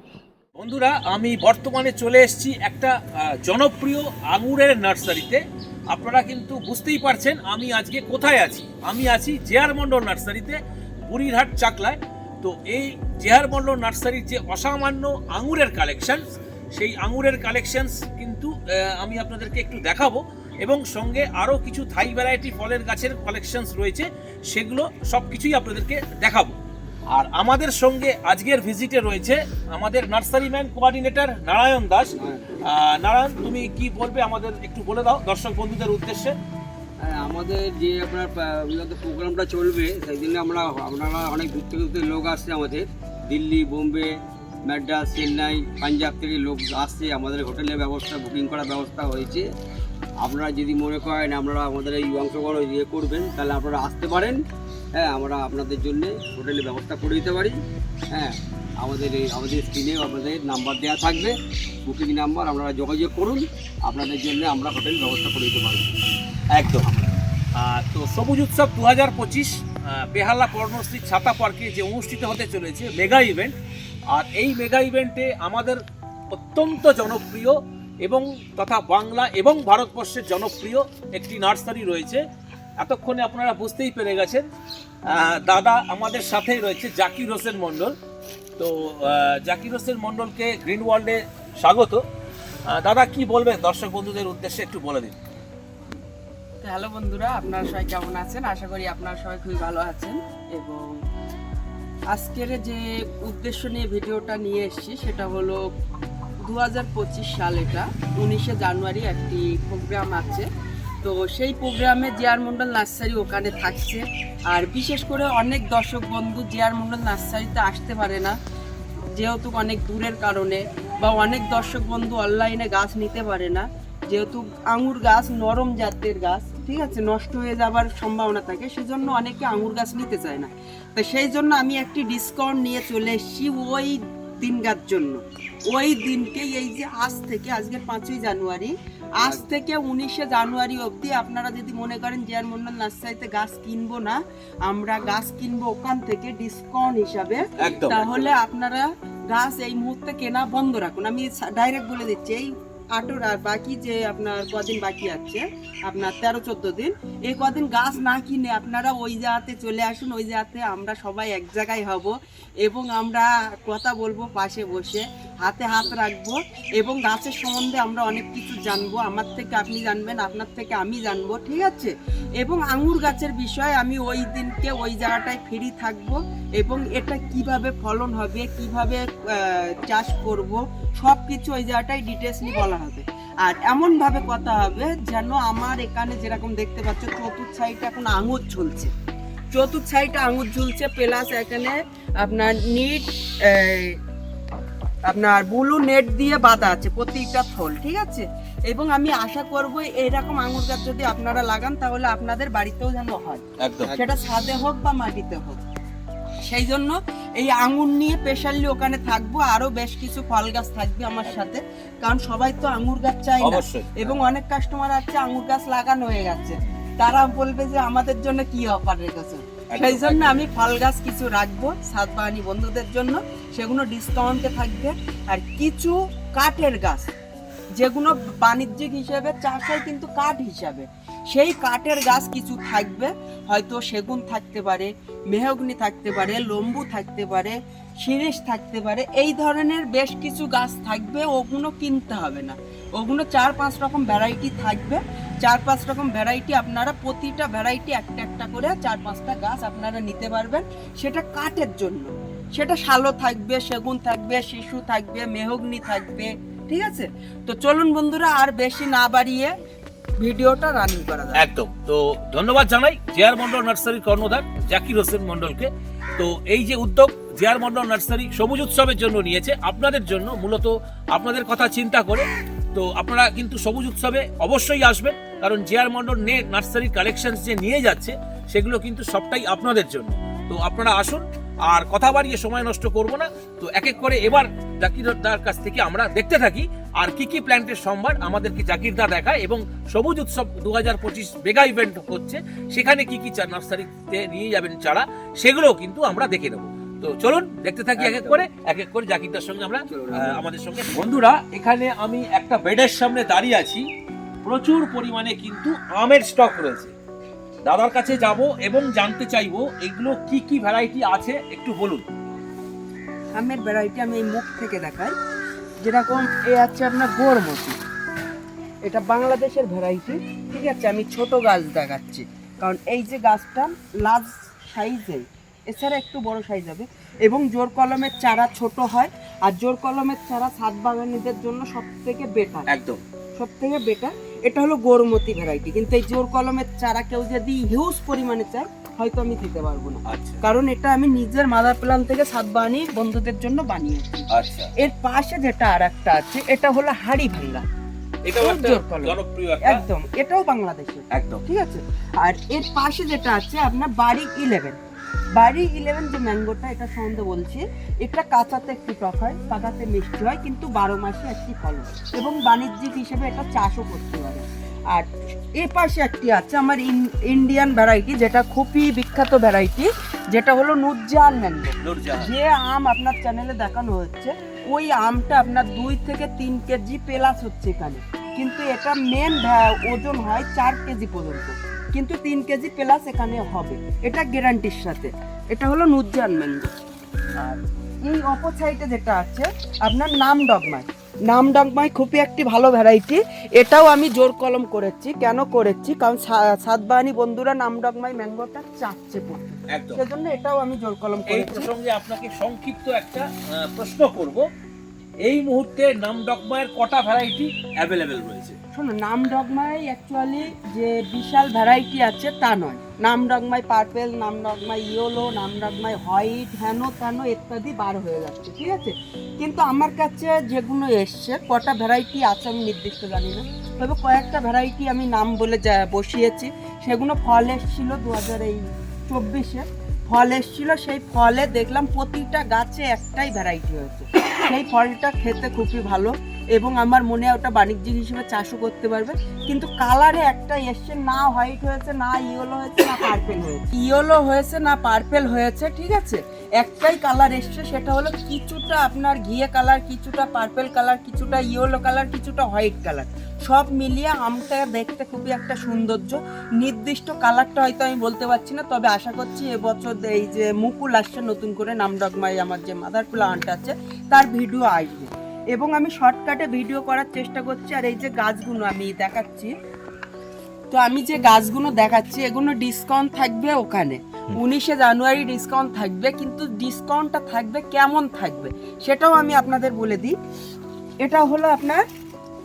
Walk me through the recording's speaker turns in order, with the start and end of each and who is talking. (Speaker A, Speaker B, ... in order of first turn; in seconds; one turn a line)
Speaker A: 0.6-16.2
Speaker A: 16.8-26.6
Speaker A: 27.1-36.4
Speaker B: 32.2-32.6
Speaker B: 37.0-44.1
Speaker B: 44.7-49.5
Speaker B: 50.2-54.4
Speaker B: 55.0-57.6
Speaker B: 58.1-66.0
Speaker A: 66.5-66.9
Speaker B: 66.8-67.2
Speaker A: 67.6-73.6
Speaker A: 74.1-82.2
Speaker A: 82.8-84.5
Speaker A: 85.1-88.0
Speaker A: 88.6-92.0
Speaker A: 92.7-95.2
Speaker C: 96.6-101.0
Speaker C: 102.1-105.7
Speaker C: 106.4-110.5
Speaker C: 111.0-118.4
Speaker C: 119.2-188.9
Speaker B: 147.5-148.2
Speaker A: 147.6-148.3
Speaker C: 189.5-194.0
Speaker C: 195.1-205.6
Speaker A: 203.6-203.9
Speaker C: 206.5-227.1
Speaker A: 213.4-214.2
Speaker A: 219.7-220.5
Speaker C: 227.8-259.5
Speaker C: 260.2-261.5
Speaker A: 261.4-303.9
Speaker B: 298.0-298.5
Speaker B: 299.9-300.4
Speaker A: 304.4-306.9
Speaker A: 307.6-312.1
Speaker C: 313.4-315.1
Speaker C: 315.8-317.8
Speaker C: 318.8-332.7
Speaker A: 332.7-333.0
Speaker C: 333.4-347.6
Speaker A: 340.1-340.4
Speaker A: 344.3-344.7
Speaker A: 348.3-349.8
Speaker C: 348.4-354.8
Speaker A: 351.1-351.4
Speaker C: 355.4-386.7
Speaker A: 371.8-372.3
Speaker C: 387.4-401.7
Speaker A: 399.7-400.0
Speaker A: 401.3-404.4
Speaker A: 405.2-408.6
Speaker C: 408.7-469.5
Speaker C: 470.7-480.1
Speaker C: 481.0-481.8